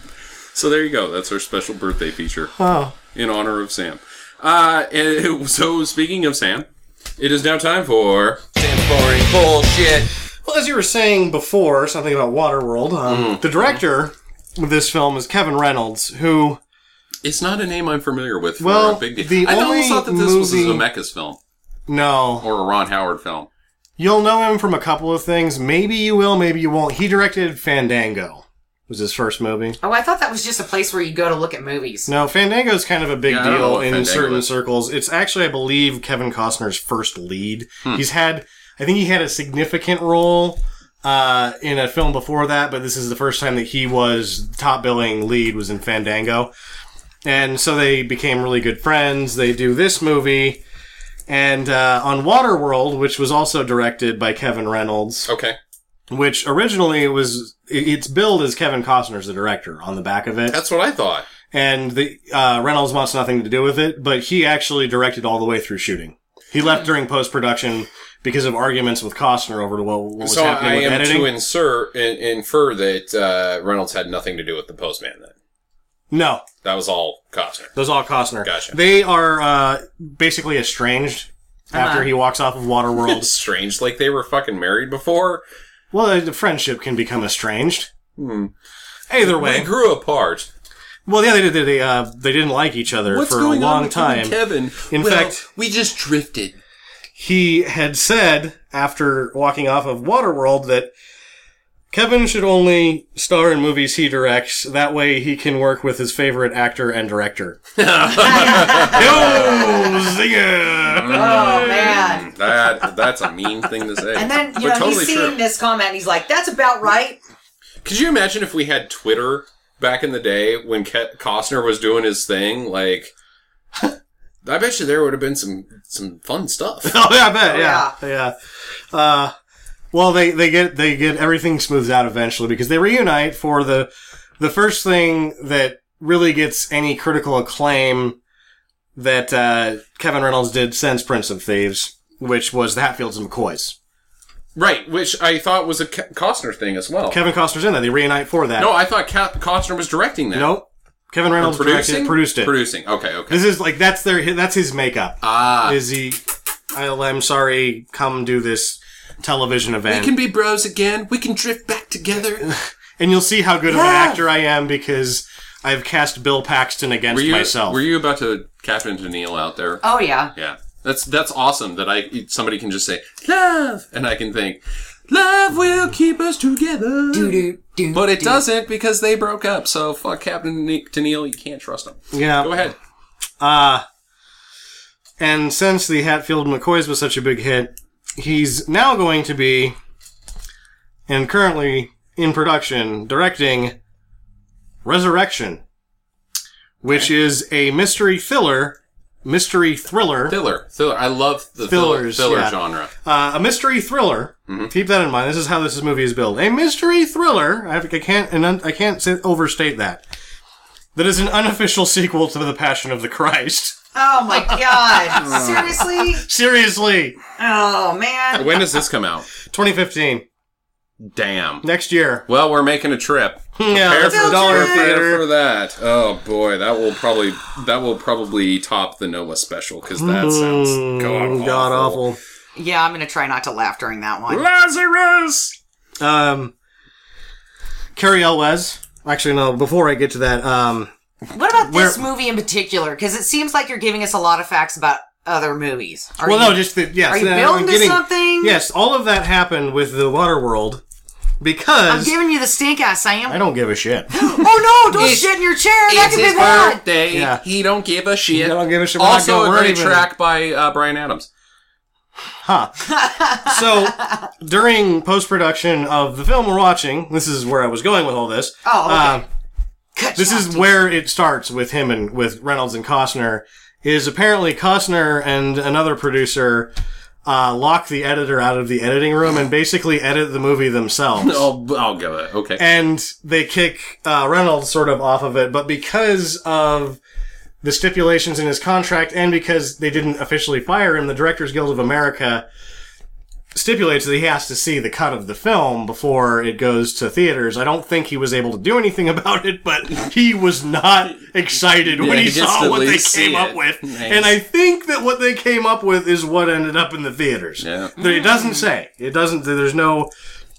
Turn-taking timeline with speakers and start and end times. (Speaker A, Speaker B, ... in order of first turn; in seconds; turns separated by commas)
Speaker A: 0.5-2.5, Speaker B: 2.6-3.0, Speaker A: 3.1-6.7, Speaker A: 7.2-10.1, Speaker B: 10.4-16.6, Speaker A: 13.1-13.8, Speaker A: 17.2-21.4, Speaker B: 18.6-20.9, Speaker B: 21.9-22.5, Speaker A: 22.4-23.5, Speaker B: 24.0-29.8, Speaker C: 29.8-32.1, Speaker B: 32.0-46.5, Speaker A: 33.2-34.5, Speaker B: 47.2-50.6, Speaker B: 51.3-55.3, Speaker A: 55.3-55.6, Speaker B: 56.1-60.6, Speaker A: 60.5-61.3, Speaker B: 61.5-71.3, Speaker A: 70.2-75.3, Speaker B: 76.1-76.4, Speaker A: 76.6-77.7, Speaker B: 77.7-83.3, Speaker A: 78.4-78.8, Speaker C: 81.7-82.1, Speaker A: 82.9-85.4, Speaker B: 85.9-87.9, Speaker A: 88.2-88.5, Speaker B: 89.1-89.7, Speaker A: 89.2-90.5, Speaker B: 91.1-95.5, Speaker A: 93.1-96.6, Speaker B: 97.2-100.9, Speaker B: 101.9-111.8, Speaker A: 107.8-110.0, Speaker C: 108.2-110.1, Speaker A: 110.8-115.4, Speaker C: 111.1-112.3, Speaker C: 114.1-117.2, Speaker A: 117.8-123.1, Speaker A: 124.4-126.9, Speaker B: 126.8-128.3, Speaker C: 127.5-127.9, Speaker B: 128.9-129.3, Speaker B: 129.9-138.2, Speaker B: 138.9-143.8, Speaker A: 144.5-147.2, Speaker B: 147.1-148.7, Speaker A: 148.6-150.5, Speaker B: 150.3-152.5, Speaker A: 151.4-153.4, Speaker B: 153.3-156.2, Speaker A: 155.2-155.8, Speaker B: 156.7-160.2, Speaker A: 159.9-162.5, Speaker B: 162.4-167.8, Speaker C: 163.7-164.2, Speaker A: 167.1-169.8, Speaker C: 169.8-170.3, Speaker A: 170.3-182.7, Speaker C: 177.1-178.4, Speaker B: 182.1-182.7, Speaker B: 183.4-183.8, Speaker B: 185.2-189.8, Speaker B: 191.1-193.8, Speaker B: 194.8-195.6, Speaker B: 196.8-200.4, Speaker A: 200.3-202.9, Speaker B: 201.7-210.0, Speaker B: 210.9-213.8, Speaker C: 213.9-216.2, Speaker B: 214.3-217.2, Speaker A: 215.1-215.8, Speaker C: 217.4-218.6, Speaker A: 218.3-219.3, Speaker B: 219.4-220.2, Speaker A: 221.0-221.6, Speaker B: 221.6-222.2, Speaker A: 222.3-232.0, Speaker B: 223.6-225.2, Speaker C: 224.0-224.8, Speaker B: 230.0-232.2, Speaker C: 232.5-234.4, Speaker A: 234.3-235.5, Speaker B: 236.0-236.5, Speaker B: 237.9-240.9, Speaker C: 241.3-248.6, Speaker B: 241.6-242.0, Speaker B: 246.2-250.8, Speaker B: 251.4-252.1, Speaker C: 251.9-253.4, Speaker B: 253.3-254.1, Speaker C: 254.1-256.8, Speaker A: 254.8-255.3, Speaker A: 255.9-261.3, Speaker B: 257.1-257.4, Speaker B: 258.3-260.1, Speaker B: 262.4-262.8, Speaker C: 262.8-264.2, Speaker B: 263.4-269.2, Speaker C: 268.6-269.2, Speaker C: 269.9-270.7, Speaker B: 270.1-276.7, Speaker B: 277.2-281.5, Speaker A: 281.2-282.7, Speaker B: 282.6-287.0, Speaker B: 287.6-292.4, Speaker B: 293.5-310.1, Speaker A: 301.8-304.4, Speaker A: 307.6-307.9, Speaker C: 308.0-308.7